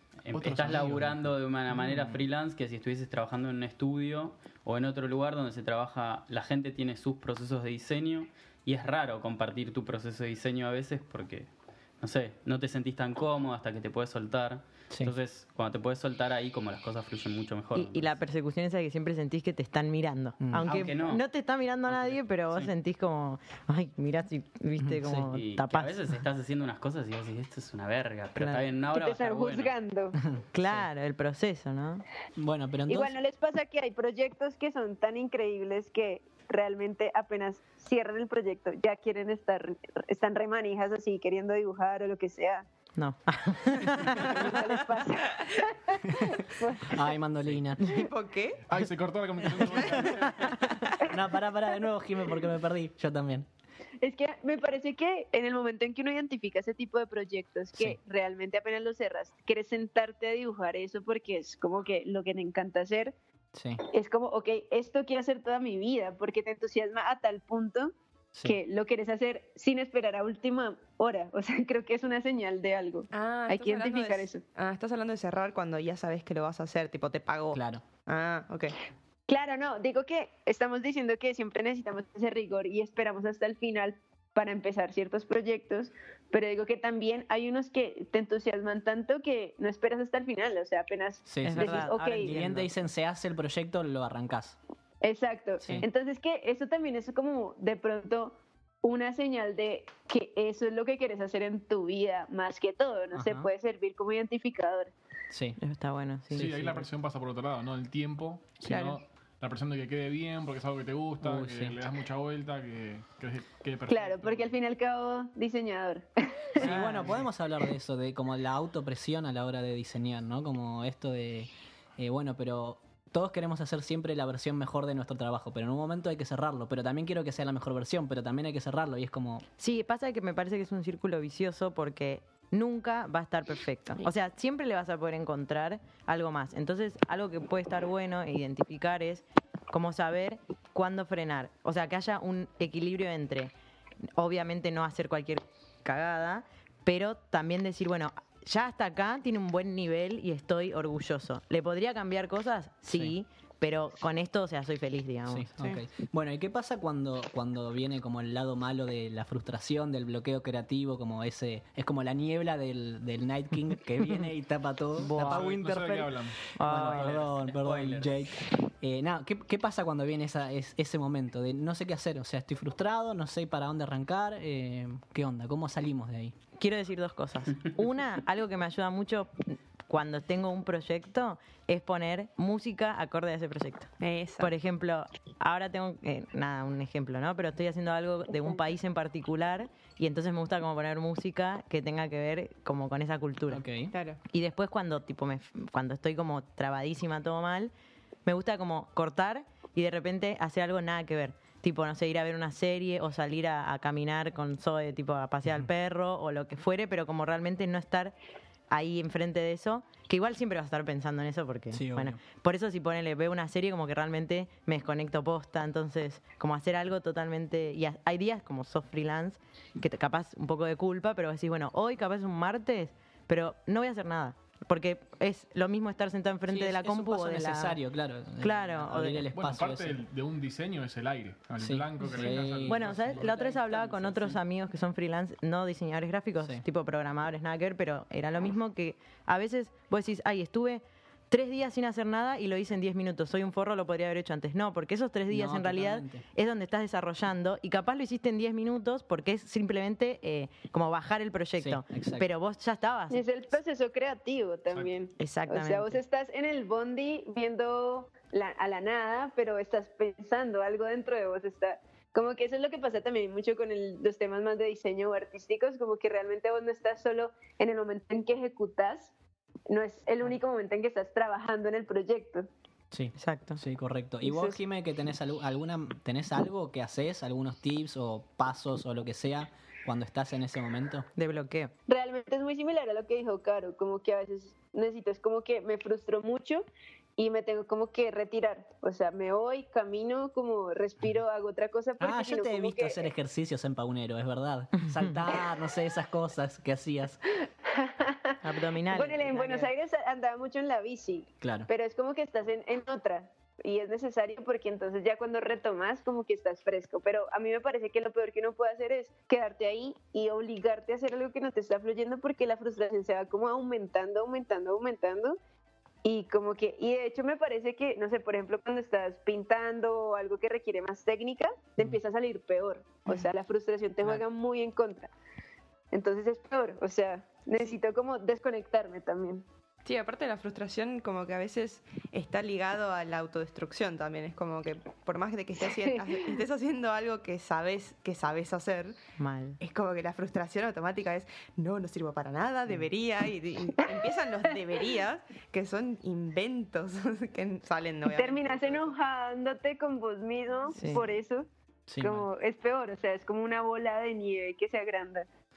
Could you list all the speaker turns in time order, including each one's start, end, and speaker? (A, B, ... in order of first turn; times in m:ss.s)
0:00.2-0:11.5 A
0:00.3-0:01.3 B
0:01.8-0:02.2 C
0:12.0-0:18.2 A
0:17.8-0:25.9 D
0:20.4-0:20.7 C
0:20.6-0:21.2 A
0:21.9-0:22.7 A
0:24.8-0:25.3 C
0:25.3-0:29.7 A
0:28.4-0:28.7 D
0:28.9-0:30.2 E
0:30.2-0:30.8 C
0:30.5-0:32.0 D
0:32.4-0:33.1 C
0:32.9-0:42.7 E
0:43.0-0:44.6 D
0:44.1-0:47.1 E
0:46.9-0:47.9 C
0:47.8-0:48.6 F
0:48.7-0:50.6 B
0:49.6-0:50.4 F
0:51.1-0:53.5 C
0:54.0-1:03.1 E
1:03.6-1:03.8 C
1:03.8-1:07.9 E
1:08.4-1:14.4 E
1:13.1-1:18.8 F
1:17.5-1:17.8 C
1:19.3-1:32.4 E
1:31.2-1:34.6 C
1:31.4-1:32.7 D
1:35.0-1:44.9 E
1:35.6-1:35.9 C
1:43.1-1:43.5 C
1:45.3-1:45.6 C
1:45.6-1:46.5 D
1:46.3-1:54.5 B
1:46.4-1:46.9 C
1:48.6-1:49.0 F
1:51.2-1:51.8 C
1:53.9-1:57.1 E
1:56.6-2:09.4 C
2:09.6-2:23.5 D
2:24.2-2:35.5 D
2:35.3-2:56.4 C
2:35.6-2:35.8 F
2:45.0-2:45.5 D
2:45.1-2:46.4 B
2:46.6-2:47.2 D
2:46.7-2:48.1 A
2:56.6-3:13.6 D
3:04.0-3:04.5 F
3:13.5-3:13.9 C
3:13.9-3:14.2 F
3:14.3-3:17.7 D
3:18.2-3:28.2 D
3:28.7-3:47.8 D
3:31.7-3:32.2 C
3:46.5-3:50.0 C
3:48.4-3:49.3 D
3:49.3-3:54.1 B
3:51.6-3:54.3 C
3:52.1-4:13.2 D
4:05.3-4:06.2 C
4:11.6-4:12.3 C
4:13.1-4:29.1 E
4:15.2-4:16.0 D
4:29.7-4:32.5 E
4:32.9-4:41.1 C
4:33.2-4:33.6 D
4:34.2-4:34.6 E
4:41.2-4:41.7 D
4:41.9-4:46.7 E
4:47.2-4:53.1 E
4:52.0-4:57.2 C
4:57.7-5:15.4 E
4:58.4-4:59.7 D
5:01.4-5:01.7 C
5:16.0-5:25.1 E
5:25.9-5:29.4 E
5:29.8-5:39.0 F
5:35.8-5:36.3 E
5:39.2-5:39.6 D
5:39.6-5:48.9 F
5:48.0-5:51.5 E
5:50.7-5:51.1 D
5:51.9-5:52.3 C
5:52.0-5:55.3 E